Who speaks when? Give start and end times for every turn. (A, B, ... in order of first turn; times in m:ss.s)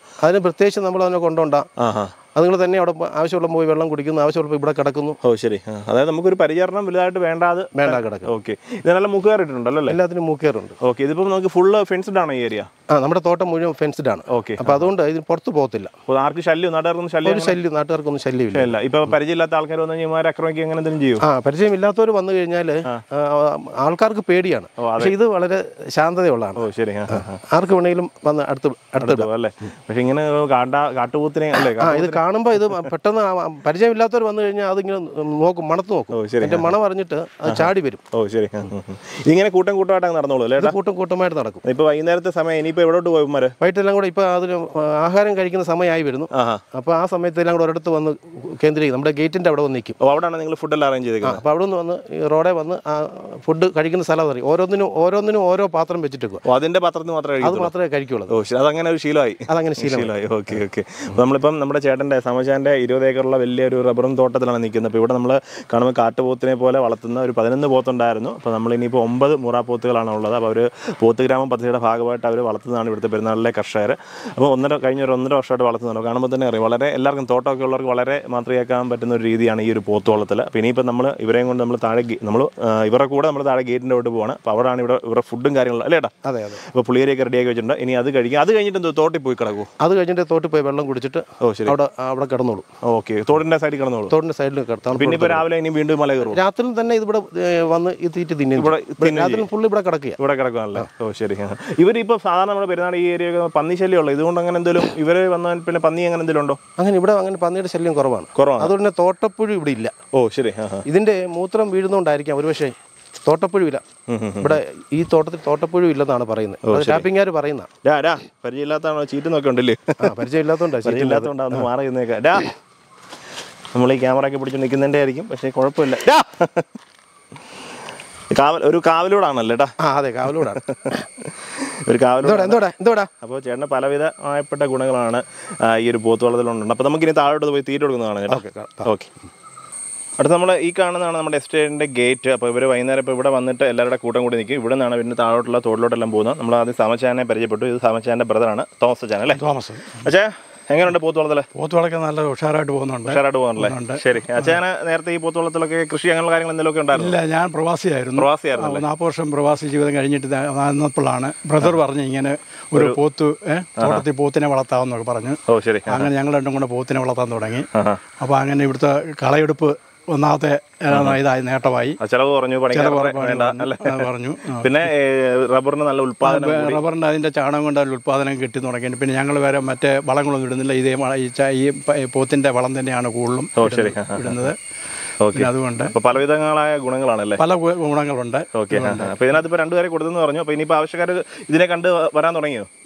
0:00.2-0:01.7 A
0:01.8-0:02.2 B
0:02.4-0:05.2 A
0:05.2-0:10.0 B
0:07.8-0:08.3 A
0:09.9-0:10.8 A
0:10.8-0:12.7 B
0:12.9-0:15.9 A
0:14.3-0:14.9 B
0:16.1-0:17.6 B
0:17.2-0:18.8 A
0:18.5-0:21.2 B
0:21.2-0:29.3 A
0:24.8-0:25.1 B
0:26.6-0:27.4 B
0:29.0-0:32.2 B
0:31.6-0:38.0 A
0:36.1-0:36.7 B
0:37.5-0:40.8 B
0:40.6-0:41.6 A
0:41.6-0:43.6 B
0:43.6-0:50.0 A
0:46.3-0:46.6 B
0:50.0-0:51.4 B
0:51.2-0:56.4 A
0:56.4-0:57.7 B
0:57.4-0:58.4 A
0:58.3-1:26.1 B
0:59.5-1:00.1 A
1:26.2-1:26.6 A
1:26.7-1:29.7 B
1:29.8-1:32.6 A
1:31.4-1:31.8 B
1:32.8-1:34.1 B
1:34.1-1:35.5 A
1:35.0-1:36.4 B
1:36.2-1:40.2 A
1:38.6-1:39.5 B
1:40.2-1:46.6 B
1:46.8-1:49.9 A
1:48.4-1:48.7 B
1:50.1-1:50.9 B
1:50.9-1:52.7 A
1:53.3-1:53.8 A
1:54.1-1:54.6 B
1:54.4-1:57.7 A
1:56.6-1:57.1 B
1:57.8-2:00.2 B
2:00.0-2:01.7 A
2:00.8-2:02.5 B
2:03.7-2:06.7 B
2:08.3-2:09.7 B
2:09.8-2:11.0 A
2:10.4-2:12.6 B
2:12.2-2:13.1 A
2:13.2-2:19.1 B
2:18.3-2:18.9 A
2:20.2-2:29.4 B
2:29.3-2:30.1 C
2:30.0-2:31.5 B
2:31.6-2:34.6 C
2:33.1-2:37.2 B
2:36.9-2:47.7 C
2:38.2-2:38.8 B
2:43.8-2:44.0 B
2:45.5-2:46.1 B
2:47.8-2:48.0 B
2:48.2-2:52.0 C
2:50.9-2:51.2 B
2:52.0-2:56.8 B
2:52.7-2:54.9 C
2:56.2-3:04.6 C
3:03.6-3:04.5 B
3:05.2-3:07.4 B
3:05.3-3:05.9 C
3:07.4-3:09.3 C
3:08.6-3:12.7 B